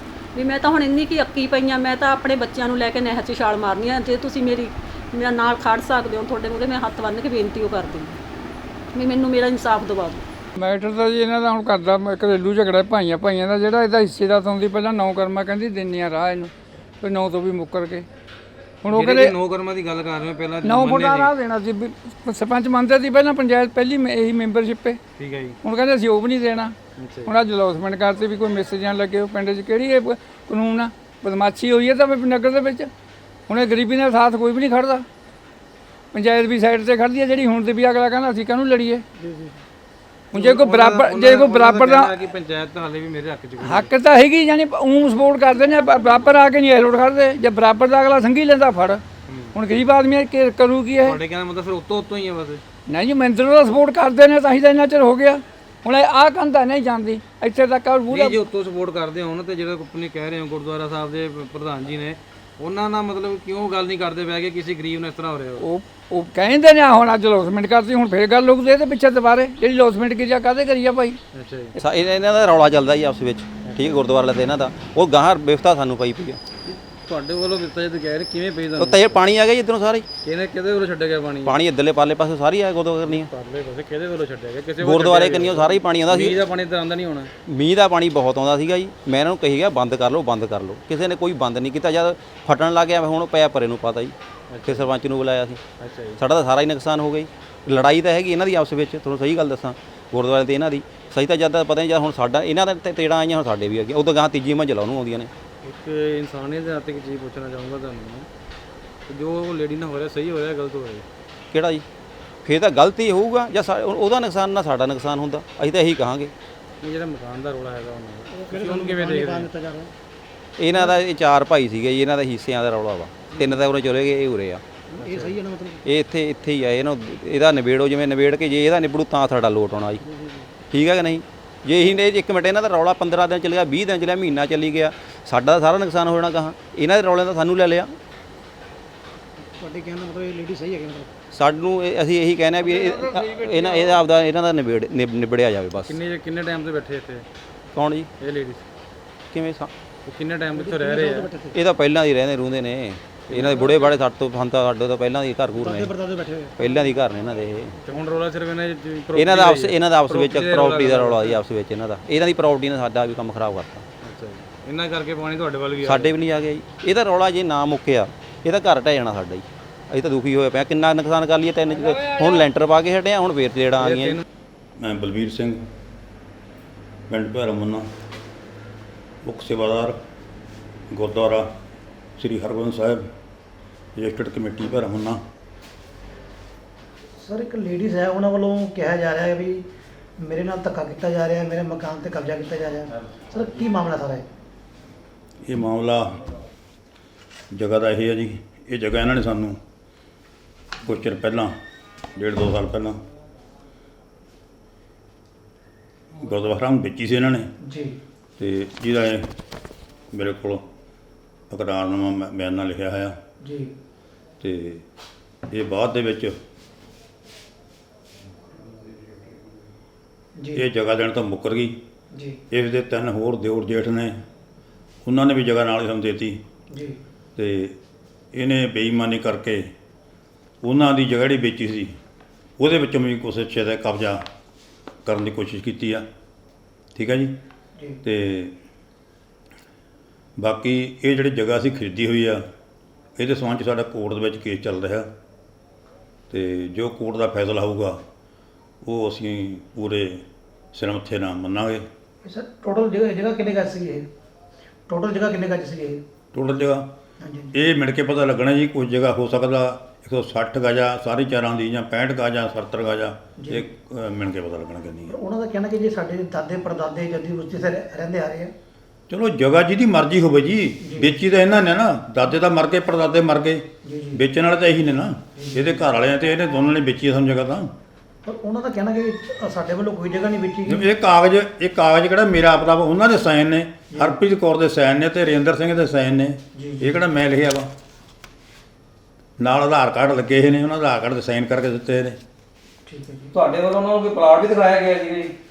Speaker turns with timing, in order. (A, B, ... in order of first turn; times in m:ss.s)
0:00.3-0:08.2 A
0:08.9-0:10.2 A
0:10.6-0:18.1 B
0:18.8-0:19.3 B
0:18.9-0:21.3 C
0:20.6-0:25.0 B
0:25.2-0:25.6 C
0:25.6-0:26.8 B
0:27.0-0:27.3 C
0:27.2-0:32.9 B
0:33.5-0:35.0 B
0:36.1-0:39.0 B
0:39.2-0:39.6 D
0:40.3-0:42.3 B
0:40.3-0:43.9 C
0:43.6-0:49.0 B
0:49.6-0:51.2 B
0:51.1-0:52.6 C
0:52.9-0:58.4 B
0:58.1-1:05.6 C
1:05.6-1:11.2 B
1:11.3-1:11.7 C
1:11.8-1:16.4 E
1:16.6-1:19.1 C
1:18.8-1:20.1 E
1:20.2-1:21.6 C
1:21.4-1:23.3 E
1:23.1-1:27.3 C
1:24.8-1:26.4 E
1:27.5-1:34.1 E
1:34.5-1:34.9 C
1:34.6-1:35.6 E
1:35.8-1:36.2 C
1:36.2-1:45.3 E
1:45.6-1:48.3 C
1:49.1-1:51.0 C
1:51.5-1:51.8 E
1:52.4-1:56.3 E
1:56.8-1:59.4 C
1:58.3-1:59.9 D
2:00.6-2:04.6 E
2:04.9-2:05.8 D
2:05.8-2:10.0 E
2:10.1-2:10.4 D
2:10.7-2:17.9 E
2:19.4-2:21.1 D
2:21.3-2:26.0 E
2:22.6-2:24.0 B
2:25.9-2:27.2 C
2:27.8-2:28.1 E
2:28.2-2:28.6 C
2:29.3-2:29.7 E
2:30.0-2:31.3 C
2:30.5-2:31.6 D
2:31.5-2:35.9 E
2:33.3-2:33.8 C
2:35.6-2:36.9 D
2:36.6-2:37.8 E
2:37.9-2:41.4 C
2:39.1-2:43.8 E
2:44.0-2:46.1 C
2:45.8-2:54.2 E
2:51.8-2:52.4 B
2:53.8-2:54.2 C
2:54.8-2:55.6 F
2:57.1-2:57.9 F
2:59.2-3:00.0 F
3:00.9-3:01.5 F
3:02.2-3:03.0 F
3:04.0-3:05.2 F
3:07.2-3:09.6 D
3:10.2-3:14.2 D
3:15.4-3:16.0 F
3:17.5-3:19.6 F
3:20.8-3:21.5 F
3:22.2-3:23.0 F
3:26.2-3:27.5 F
3:27.6-3:28.0 D
3:28.4-3:29.2 F
3:30.1-3:30.6 F
3:31.5-3:33.2 F
3:33.4-3:33.7 D
3:34.4-3:34.8 F
3:35.5-3:36.3 F
3:40.4-3:40.6 D
3:40.5-3:41.7 F
3:42.1-3:42.4 D
3:42.5-3:44.2 F
3:45.0-3:46.4 F
3:46.7-3:47.0 D
3:47.4-3:47.8 F
3:48.3-3:49.6 F
3:50.6-3:51.9 F
3:52.6-3:54.2 F
3:55.0-3:56.0 F
3:56.9-3:57.3 F
3:58.0-3:58.5 F
4:00.4-4:02.4 F
4:03.2-4:05.1 F
4:06.3-4:08.0 F
4:08.8-4:10.2 F
4:10.7-4:11.8 F
4:12.2-4:14.0 D
4:14.9-4:16.0 D
4:16.3-4:16.8 F
4:17.2-4:17.5 D
4:17.5-4:25.1 F
4:23.4-4:23.6 D
4:25.1-4:28.5 D
4:29.1-4:37.7 F
4:30.8-4:31.1 D
4:33.8-4:34.2 D
4:35.4-4:35.8 D
4:38.2-4:40.9 D
4:40.7-4:47.7 F
4:43.9-4:44.2 D
4:46.5-4:47.0 D
4:49.4-4:52.2 F
4:52.9-4:53.3 D